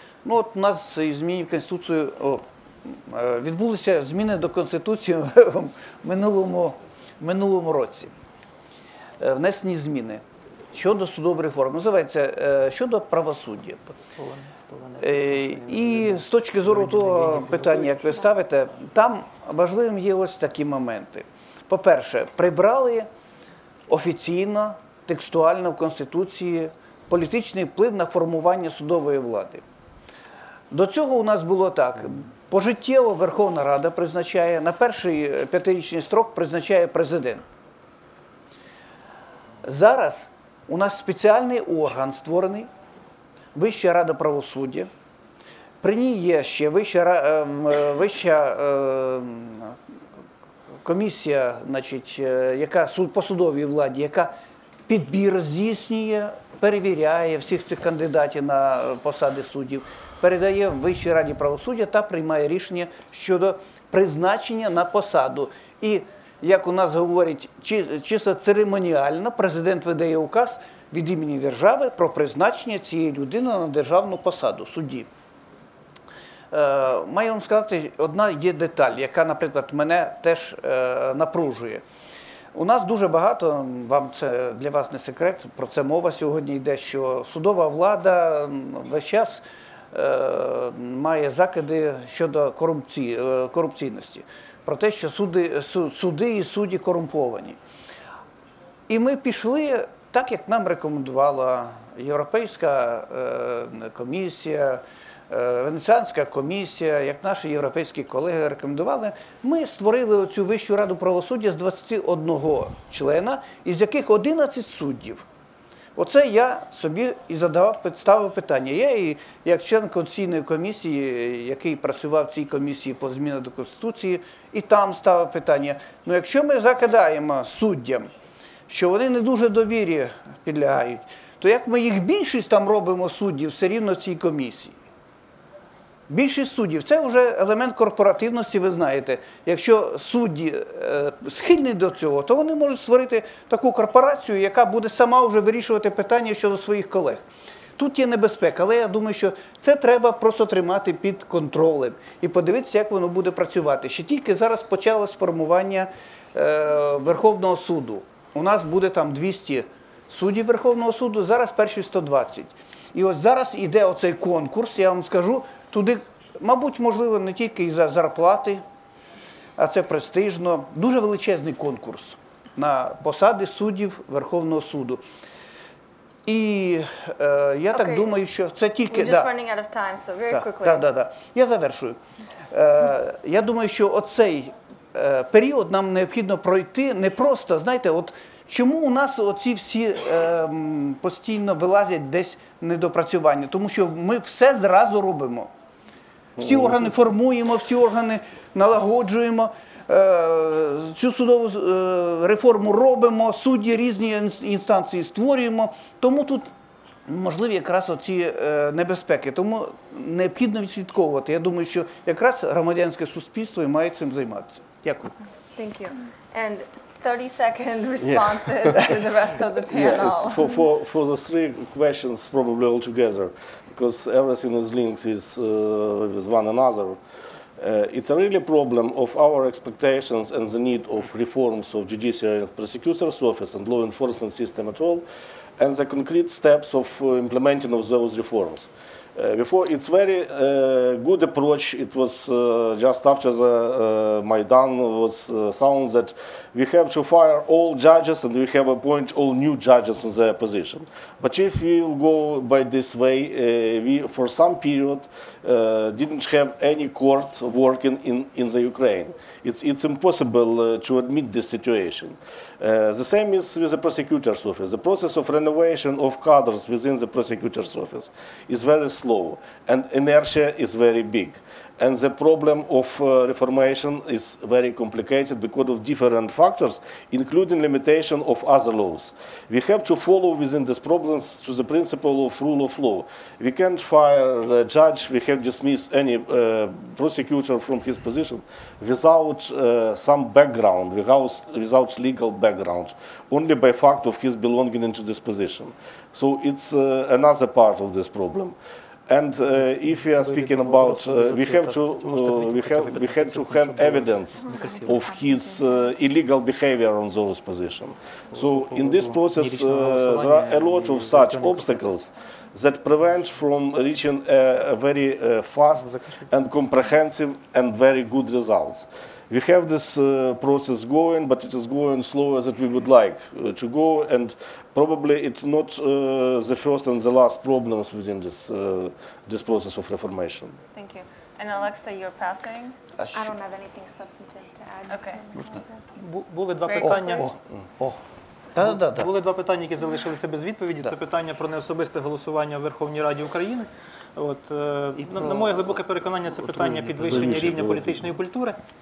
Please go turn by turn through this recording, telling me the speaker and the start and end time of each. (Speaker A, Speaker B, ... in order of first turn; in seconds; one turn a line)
Speaker A: 0.2-8.1
Speaker A: 9.2-13.8
Speaker B: 13.9-18.3
Speaker A: 15.0-23.1
Speaker A: 23.9-29.6
Speaker A: 30.7-37.5
Speaker A: 39.6-42.7
Speaker A: 43.5-44.9
Speaker A: 45.8-49.8
Speaker A: 50.8-54.4
Speaker A: 54.9-75.1
Speaker A: 76.5-81.8
Speaker A: 82.5-97.6
Speaker A: 98.9-115.3
Speaker A: 116.0-128.1
Speaker A: 128.7-134.8
Speaker A: 136.1-168.6
Speaker A: 169.6-175.0
Speaker A: 176.3-179.3
Speaker C: 177.7-178.2
Speaker C: 178.9-180.8
Speaker A: 180.3-182.0
Speaker A: 182.5-195.5
Speaker A: 196.4-206.5
Speaker D: 196.4-196.7
Speaker A: 207.1-215.2
Speaker C: 215.6-220.5
Speaker D: 218.0-218.9
Speaker D: 219.7-227.0
Speaker D: 227.6-235.0
Speaker D: 235.6-298.6
Speaker D: 299.1-330.6
Speaker B: 299.9-305.4
Speaker B: 308.3-312.0
Speaker B: 315.8-316.3
Speaker C: 330.7-332.8
Speaker A: 333.0-333.3
Speaker E: 333.1-335.6
Speaker C: 334.9-335.2
Speaker B: 336.0-337.3
Speaker C: 336.6-337.2
Speaker A: 336.8-338.0
Speaker A: 338.6-339.1
Speaker B: 338.6-348.6
Speaker A: 345.0-345.8
Speaker A: 346.3-347.3
Speaker D: 346.6-348.2